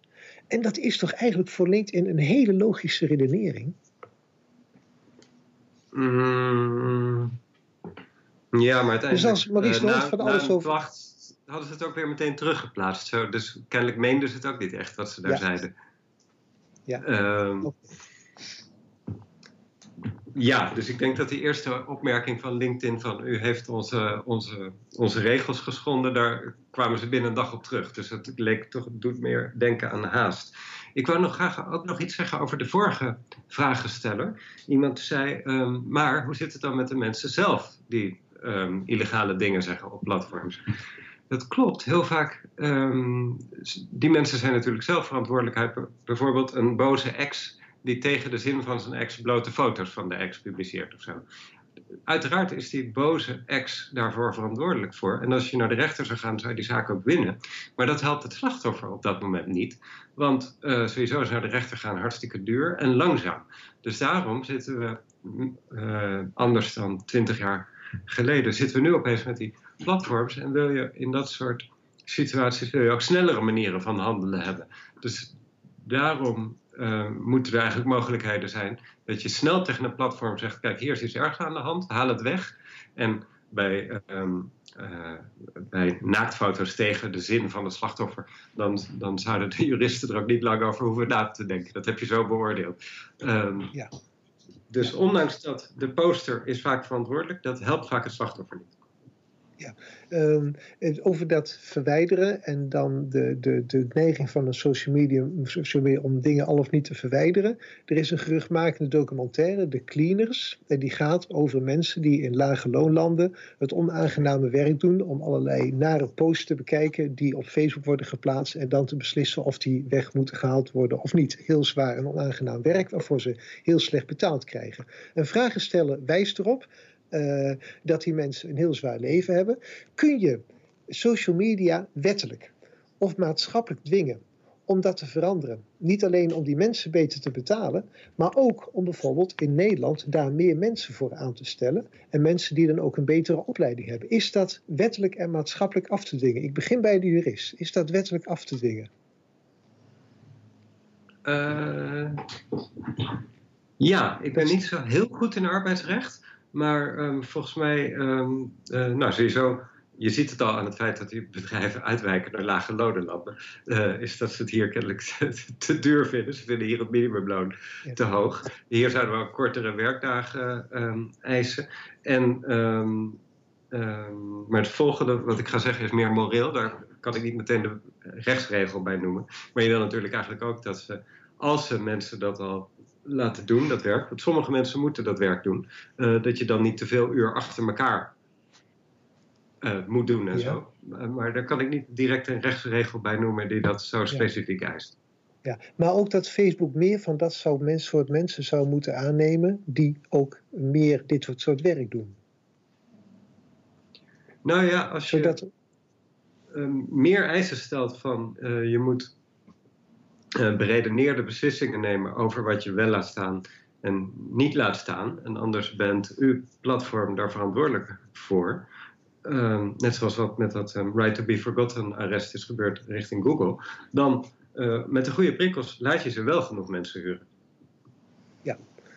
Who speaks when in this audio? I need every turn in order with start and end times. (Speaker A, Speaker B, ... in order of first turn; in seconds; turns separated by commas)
Speaker A: 0.5-3.8, Speaker B: 5.9-7.3, Speaker B: 8.5-15.7, Speaker A: 9.1-10.7, Speaker B: 17.0-17.7, Speaker B: 20.3-40.6, Speaker B: 41.3-51.2, Speaker B: 52.1-93.8, Speaker B: 94.7-98.7, Speaker A: 99.6-148.9, Speaker B: 151.2-153.2, Speaker B: 153.8-173.2, Speaker B: 173.7-188.1, Speaker B: 189.6-194.9, Speaker A: 190.3-190.6, Speaker A: 195.4-202.2, Speaker B: 204.4-205.4, Speaker A: 205.1-205.4, Speaker B: 206.5-209.1, Speaker B: 210.3-218.7, Speaker B: 219.2-227.2